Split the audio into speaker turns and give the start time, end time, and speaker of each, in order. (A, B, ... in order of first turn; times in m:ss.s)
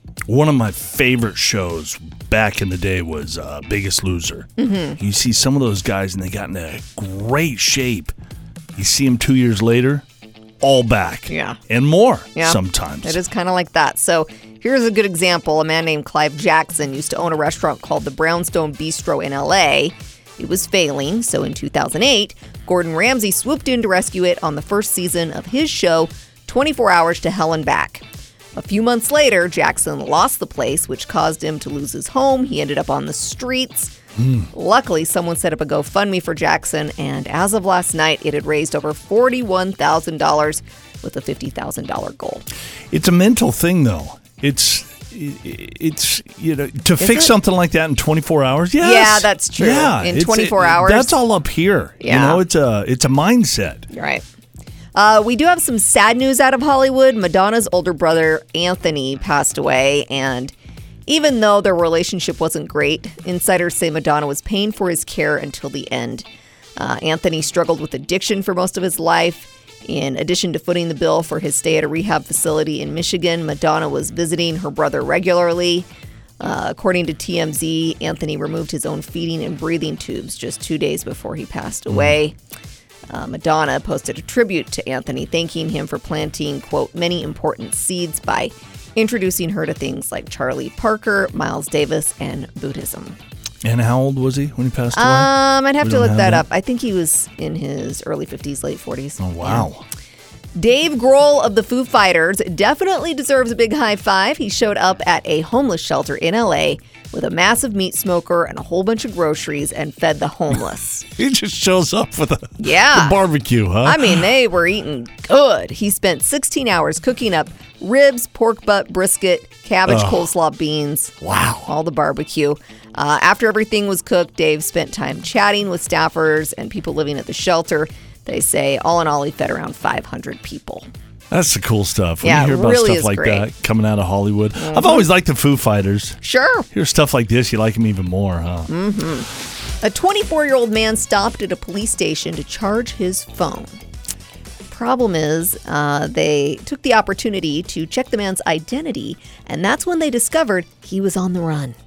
0:00.3-0:08.1 A
0:04.6-0:05.0 B
0:08.7-0:10.0 A
0:10.6-0:13.2 A
0:11.3-0:11.6 B
0:12.3-0:28.0 B
0:28.6-0:33.9 B
0:34.2-0:34.5 A
0:34.5-0:42.5 B
0:42.9-0:53.8 A
0:47.0-0:47.3 B
0:48.8-0:51.2 B
0:52.0-0:52.4 B
0:53.9-0:54.2 B
0:54.9-1:00.5 B
1:01.1-1:15.9 B
1:16.4-1:22.4 B
1:21.9-1:22.2 A
1:23.1-1:33.2 B
1:33.6-1:36.4 A
1:34.9-1:39.7 B
1:39.2-1:39.8 A
1:40.5-1:51.0 B
1:51.1-1:54.3 A
1:52.6-1:53.2 B
1:53.8-2:10.9 B
1:59.9-2:00.3 A
2:01.2-2:01.7 A
2:11.3-2:16.2 A
2:12.2-2:13.5 B
2:14.6-2:15.1 B
2:16.2-2:16.7 B
2:16.7-2:18.7 A
2:18.7-2:19.3 B
2:19.8-2:23.8 B
2:24.7-2:31.8 B